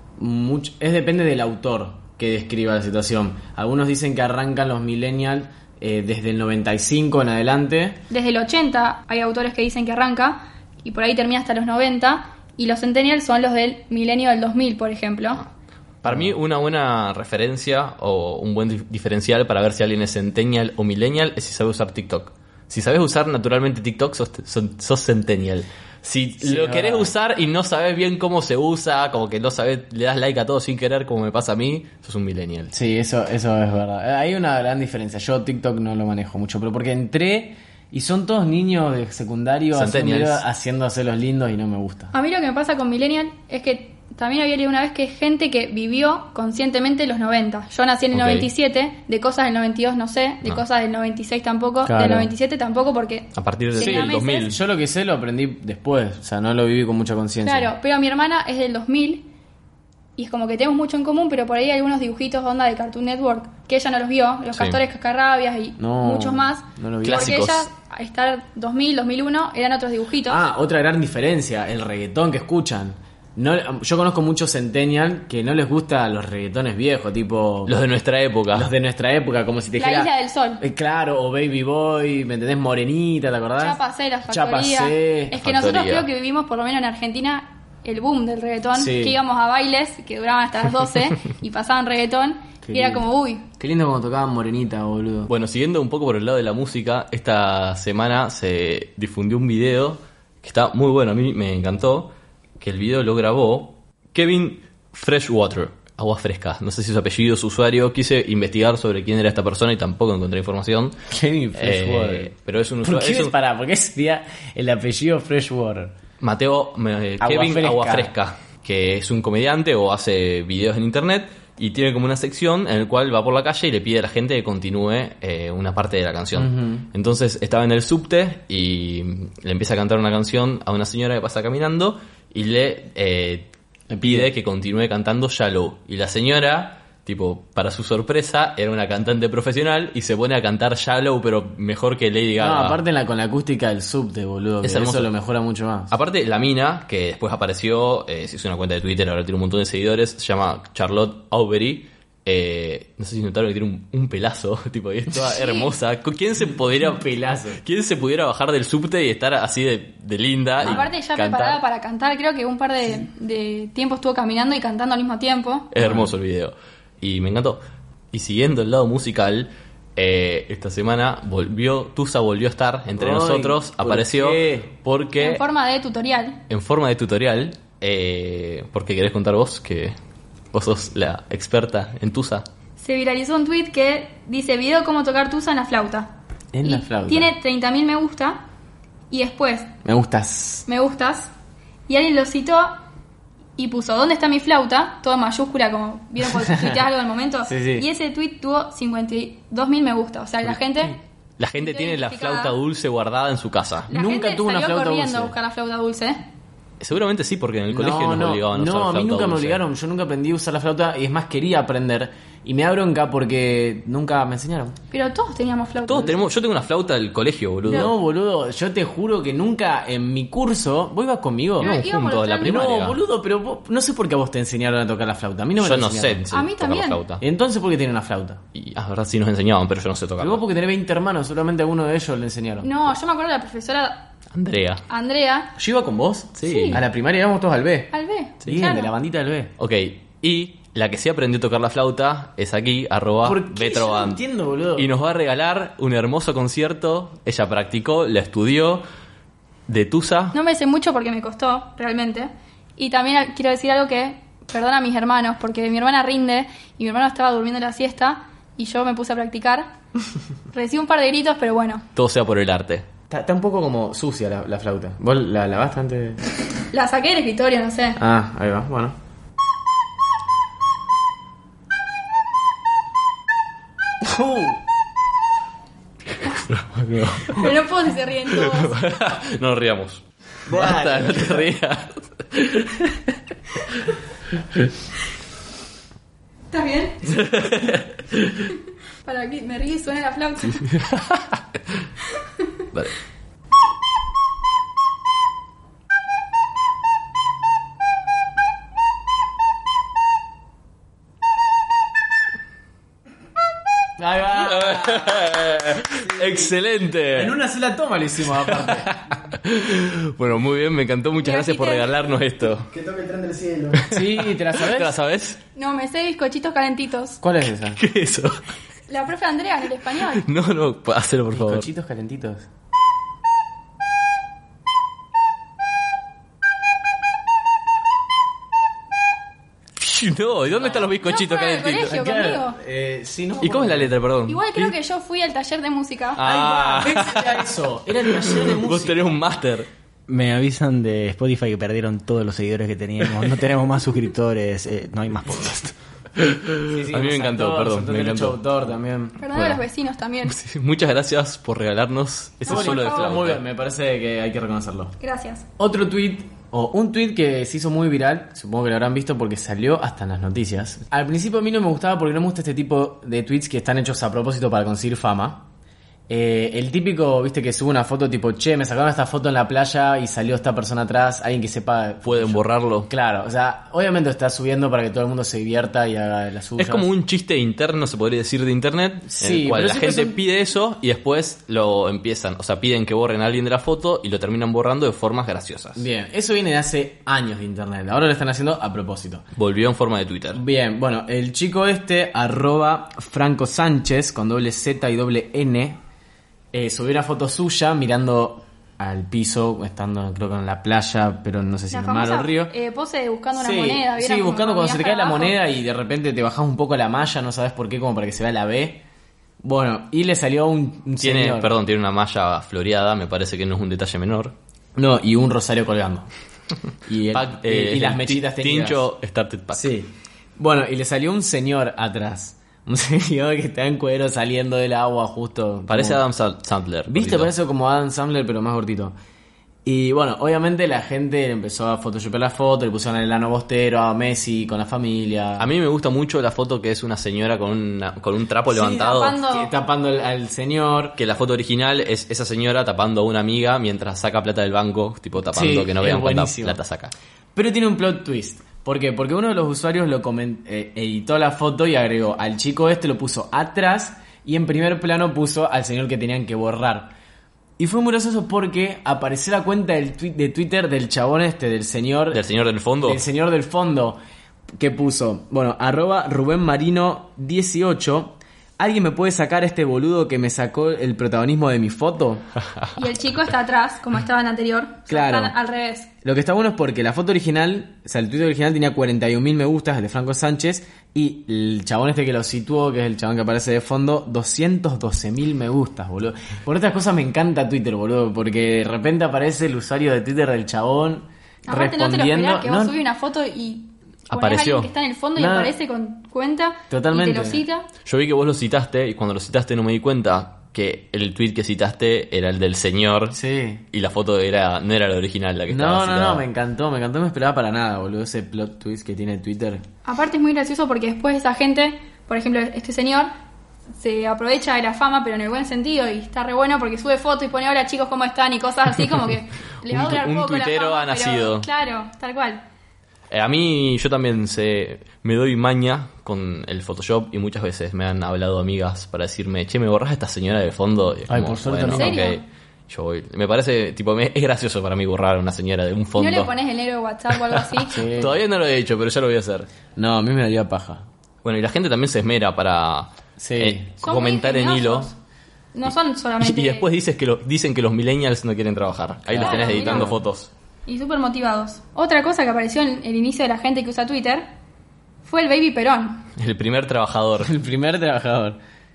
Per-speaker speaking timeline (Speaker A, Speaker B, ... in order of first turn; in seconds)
Speaker A: 0.2-8.0, 26.4-27.1, 32.7-42.1, 51.8-52.3, 53.8-57.7, 65.8-67.4, 70.2-77.7, 78.5-85.3, 88.7-89.2, 92.6-93.0, 93.6-95.3, 111.1-112.3, 112.8-115.9, 117.2-118.1, 126.3-126.9, 133.9-134.3, 142.4-145.9, 156.8-157.6, 165.8-166.1, 172.9-174.7, 186.5-187.3, 189.8-190.7, 196.4-196.8, 197.4-197.9, 203.9-205.3, 207.7-214.8, 217.7-221.8, 222.4-226.2, 227.2-228.4, 230.2-232.7, 235.6-237.9, 238.4-239.5, 243.2-244.9, 263.1-266.2, 268.0-269.0, 274.0-274.6, 280.5-281.4, 304.0-305.4, 305.9-306.5, 307.1-308.9, 312.7-314.9, 317.2-317.8, 321.3-322.5, 330.5-330.9, 331.9-333.9, 336.2-339.2, 346.7-349.2, 352.5-354.9, 355.6-365.4, 366.1-376.9, 379.1-380.2, 385.7-389.2, 390.3-395.8, 396.5-402.5, 403.3-408.8, 409.4-411.5, 414.8-416.1, 416.8-418.8, 419.5-426.0, 426.9-428.9, 429.6-435.5, 438.5-441.0, 445.2-446.6, 447.3-456.9, 457.6-462.2, 462.8-464.0, 464.6-472.2, 474.9-475.4, 476.0-492.8, 495.1-495.5, 496.7-497.4, 503.1-503.6, 505.5-509.6, 531.1-532.0, 537.7-538.2, 539.8-540.9, 543.2-543.7, 549.1-550.0, 557.2-558.4
Speaker B: 8.1-15.4, 42.1-54.5, 57.4-59.2, 60.2-70.4, 79.8-80.6, 83.6-93.4, 155.3-155.7, 160.6-165.7, 175.2-176.4, 182.8-186.1, 186.6-188.4, 189.1-189.7, 190.7-191.3, 191.9-192.8, 193.6-200.9, 201.6-202.5, 203.9-206.2, 214.9-216.2, 221.6-222.6, 226.3-227.0, 232.6-234.1, 234.9-235.5, 236.4-236.8, 237.9-238.9, 250.3-259.7, 260.5-261.9, 266.7-268.0, 277.3-278.8, 286.5-287.1, 289.0-290.6, 311.2-311.9, 315.6-317.2, 318.9-320.2, 331.0-332.6, 334.3-336.4, 349.2-350.4, 352.4-353.1, 355.0-355.4, 401.7-405.4, 438.5-439.5, 472.7-475.9, 491.5-497.7, 509.8-513.1, 513.8-522.4, 531.7-532.2, 536.0-537.8, 543.8-545.0, 545.5-546.7, 549.2-549.9, 550.7-554.3, 555.0-556.1
Speaker C: 16.0-32.7, 39.7-40.4, 48.1-48.5, 53.3-54.6, 64.5-64.8, 67.0-67.7, 77.7-78.7, 85.4-86.1, 95.3-111.0, 111.5-113.3, 116.2-133.5, 134.0-142.8, 144.6-145.1, 145.9-157.1, 157.6-161.6, 165.7-175.4, 176.5-179.9, 180.5-182.4, 201.4-203.9, 206.8-209.6, 215.9-217.9, 221.6-223.0, 225.6-227.2, 228.5-230.4, 234.3-234.8, 236.4-236.8, 239.6-244.2, 244.8-248.8, 249.7-250.3, 261.9-262.9, 276.2-277.5, 278.4-283.1, 287.1-288.5, 290.6-291.3, 304.4-307.3, 308.4-312.7, 313.7-315.4, 317.8-318.4, 320.1-321.7, 329.8-331.9, 333.4-334.7, 336.1-337.4, 337.9-339.7, 346.2-348.4, 349.3-349.6, 350.2-353.4, 372.0-372.9, 376.6-385.8, 389.3-390.4, 411.0-414.3, 417.1-419.7, 425.7-427.3, 435.4-439.2, 441.0-446.9, 462.1-463.0, 494.1-494.7, 497.8-503.2, 503.7-506.2, 519.7-521.5, 523.1-536.3, 537.2-539.5, 541.2-544.9, 546.2-550.3, 556.2-557.3
Speaker D: 340.1-345.7